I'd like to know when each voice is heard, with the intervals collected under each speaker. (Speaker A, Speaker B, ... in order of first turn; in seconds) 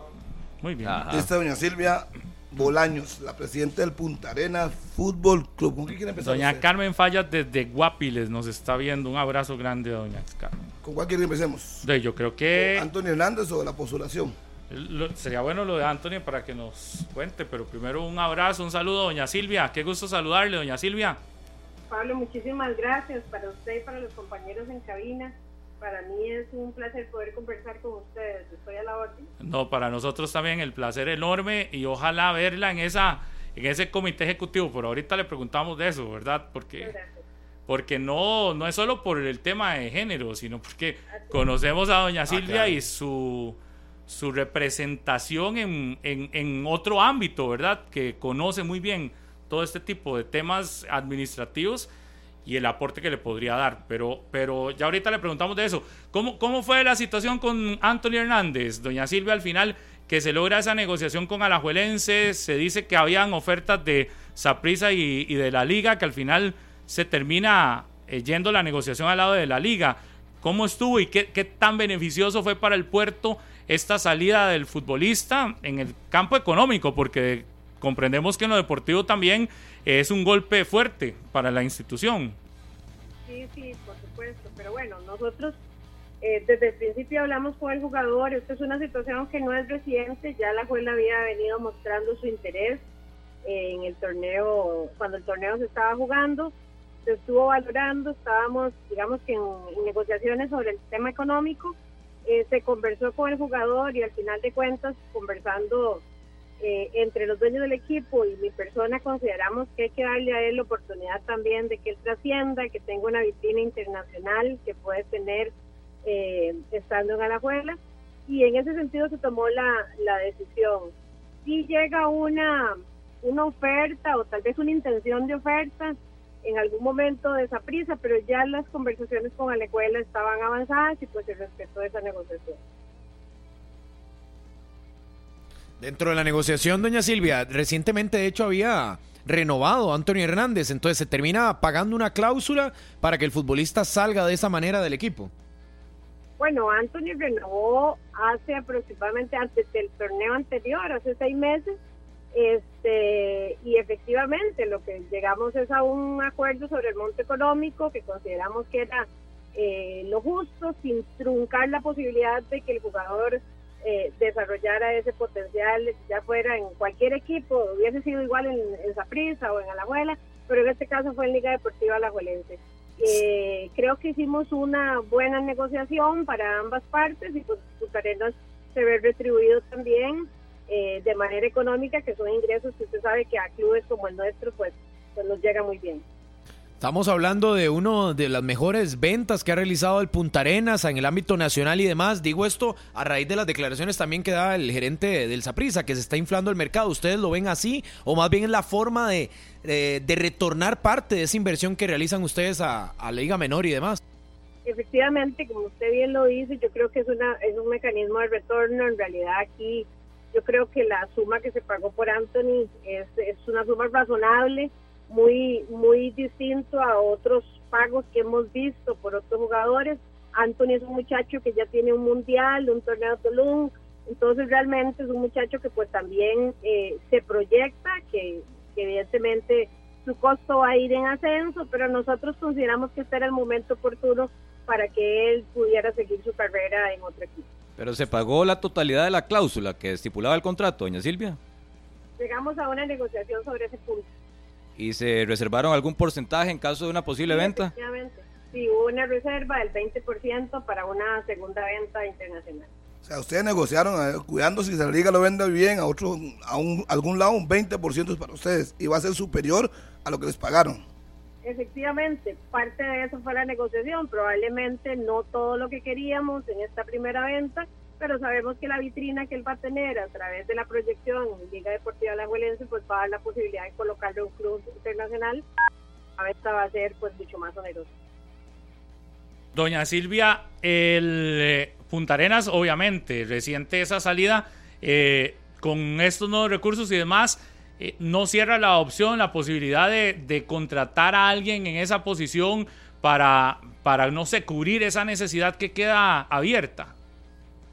Speaker A: 0.6-1.0, 6.2-10.7, 11.8-12.9, 14.7-21.2, 29.4-36.9, 37.7-51.9, 52.4-82.4, 279.5-296.9
Speaker B: 0.8-1.3, 237.8-241.4, 244.8-247.7
Speaker C: 1.1-6.6, 10.8-11.8, 12.5-14.3, 253.0-260.8
Speaker D: 21.9-29.3, 36.8-37.2, 41.1-41.4, 83.3-85.5, 86.2-92.8, 93.4-96.5, 97.0-101.7, 102.2-106.0, 106.6-115.5, 116.0-120.9, 121.4-132.6, 146.4-151.8, 152.3-186.0, 204.6-237.4, 242.2-244.1, 247.3-252.7, 261.4-275.4, 276.2-277.9
Speaker E: 135.8-145.3, 186.8-204.0